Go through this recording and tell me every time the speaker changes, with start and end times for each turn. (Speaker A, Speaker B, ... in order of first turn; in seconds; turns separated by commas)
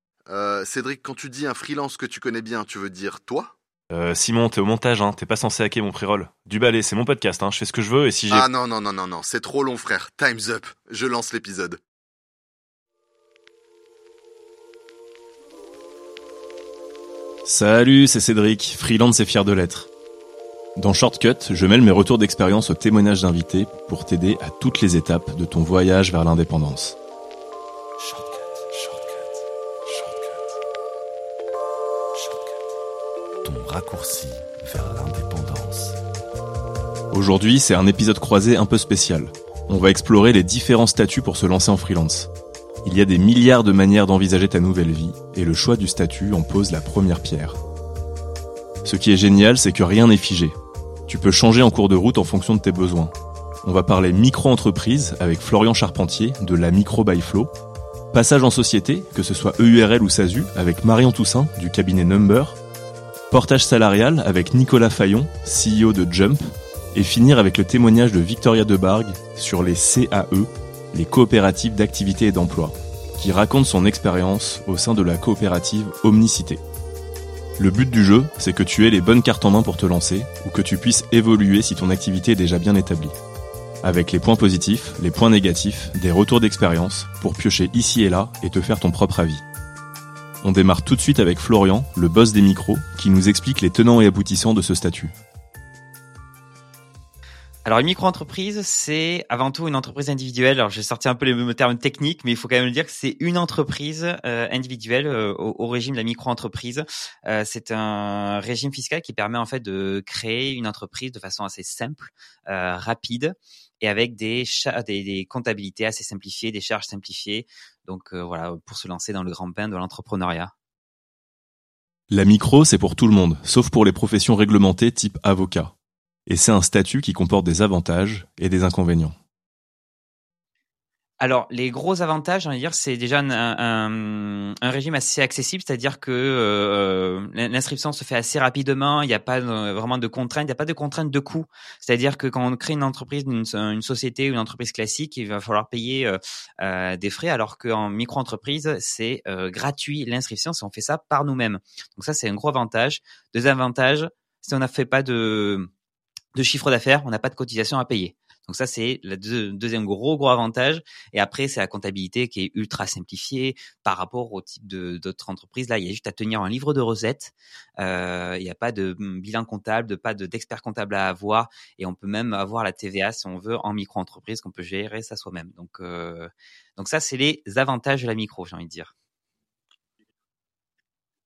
Speaker A: 0.3-3.5, Speaker B: 3.9-8.5, Speaker A: 8.3-11.8, Speaker B: 17.4-19.9, Speaker B: 20.8-27.0, Speaker C: 28.0-29.3, Speaker C: 29.9-30.5, Speaker C: 32.1-32.6, Speaker C: 33.4-36.0, Speaker B: 37.1-42.3, Speaker B: 42.8-47.6, Speaker B: 48.9-50.6, Speaker B: 51.1-53.1, Speaker B: 53.6-57.5, Speaker B: 58.1-62.6, Speaker B: 63.3-76.6, Speaker B: 77.6-83.2, Speaker B: 83.8-89.4, Speaker B: 90.4-95.1, Speaker D: 97.7-120.5, Speaker B: 122.1-125.7, Speaker B: 126.3-129.2, Speaker D: 131.2-155.7, Speaker D: 156.3-178.9